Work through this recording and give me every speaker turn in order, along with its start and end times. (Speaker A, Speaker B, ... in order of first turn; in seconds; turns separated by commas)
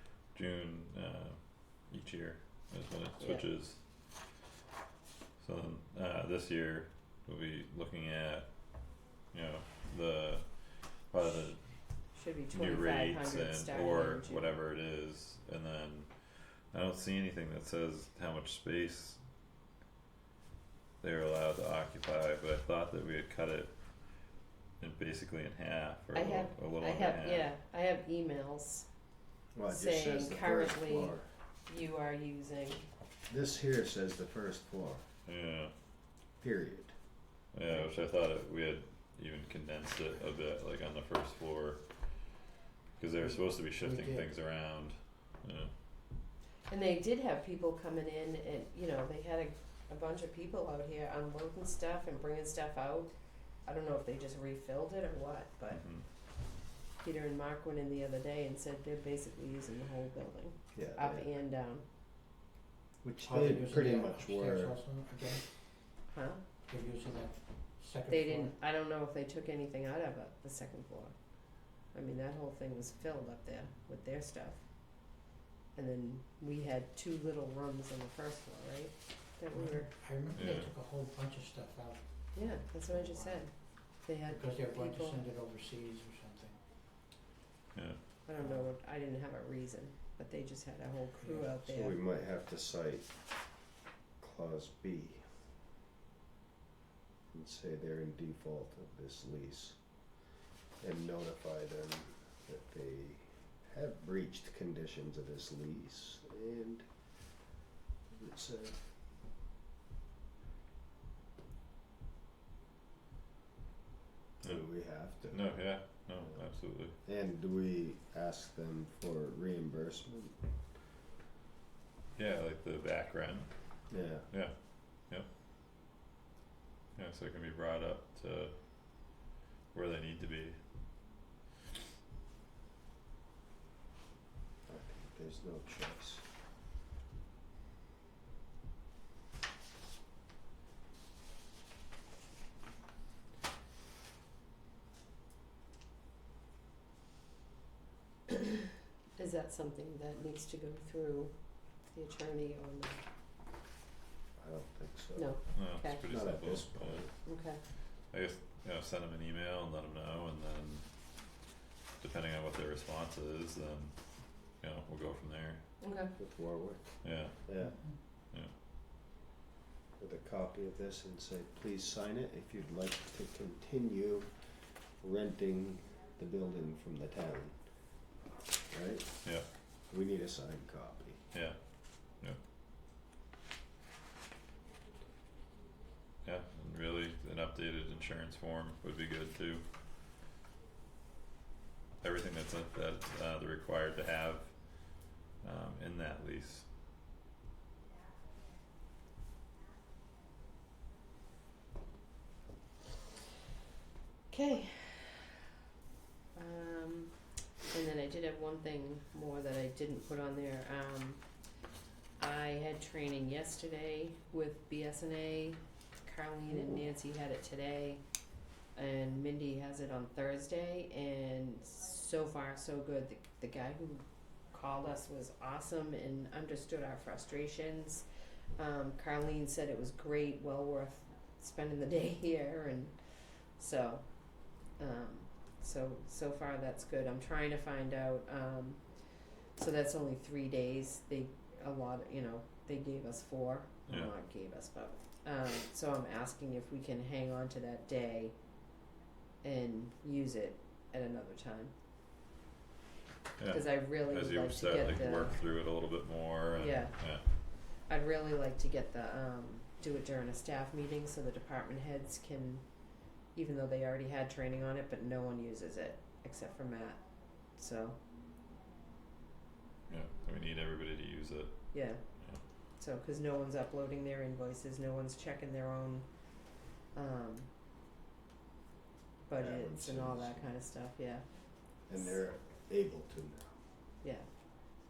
Speaker A: 0.3-3.8, Speaker B: 3.2-3.5, Speaker A: 5.4-8.5, Speaker A: 9.3-11.6, Speaker B: 12.1-14.6, Speaker A: 12.5-19.2, Speaker A: 21.0-23.7, Speaker A: 24.8-27.5, Speaker B: 26.1-28.9, Speaker C: 29.6-31.3, Speaker B: 29.7-32.9, Speaker C: 33.3-35.0, Speaker A: 35.3-35.7, Speaker C: 36.4-36.9, Speaker A: 37.5-42.1, Speaker A: 43.0-45.7, Speaker D: 43.3-44.3, Speaker B: 46.7-53.1, Speaker B: 53.6-55.8, Speaker A: 55.7-56.0, Speaker B: 57.0-61.8, Speaker C: 60.7-61.3, Speaker D: 63.0-65.5, Speaker C: 63.1-64.8, Speaker B: 66.1-66.4, Speaker D: 66.7-68.5, Speaker B: 68.1-71.1, Speaker B: 71.7-74.6, Speaker B: 75.8-79.9, Speaker D: 79.5-86.6, Speaker A: 80.3-80.7, Speaker B: 82.3-85.2, Speaker A: 87.7-88.0, Speaker B: 88.2-92.0, Speaker D: 88.4-88.7, Speaker D: 91.2-91.6, Speaker C: 91.6-93.1, Speaker C: 94.2-95.4, Speaker C: 97.3-99.8, Speaker C: 100.8-106.9, Speaker C: 108.1-108.9, Speaker A: 114.4-116.9, Speaker C: 114.4-115.6, Speaker C: 117.0-120.4, Speaker A: 122.2-124.5, Speaker C: 123.9-124.2, Speaker A: 127.0-129.2, Speaker A: 129.7-130.6, Speaker C: 134.7-136.2, Speaker B: 149.2-153.0, Speaker C: 154.4-157.1, Speaker B: 155.2-156.0, Speaker A: 155.5-157.1, Speaker B: 157.2-157.6, Speaker A: 158.1-160.8, Speaker A: 162.0-165.6, Speaker B: 165.8-166.1, Speaker C: 166.2-167.8, Speaker A: 167.0-167.4, Speaker D: 167.7-167.9, Speaker C: 170.0-177.9, Speaker C: 178.7-181.2, Speaker A: 181.3-181.6, Speaker A: 186.2-189.6, Speaker A: 192.0-196.7, Speaker B: 204.3-205.3, Speaker B: 206.3-207.2, Speaker B: 207.7-211.2, Speaker B: 212.2-218.0, Speaker B: 218.8-228.0, Speaker B: 228.6-234.1, Speaker B: 234.8-238.8, Speaker B: 239.5-248.3, Speaker B: 249.4-251.7, Speaker A: 253.4-257.2, Speaker B: 253.5-255.4, Speaker B: 256.6-256.9, Speaker B: 257.7-262.6, Speaker B: 263.3-267.0, Speaker B: 267.6-267.9, Speaker A: 269.9-272.4, Speaker B: 271.7-272.0, Speaker B: 272.8-276.1, Speaker B: 276.9-277.5, Speaker B: 279.3-281.2, Speaker C: 279.4-280.5, Speaker C: 281.9-283.6, Speaker B: 281.9-282.2, Speaker B: 284.0-284.3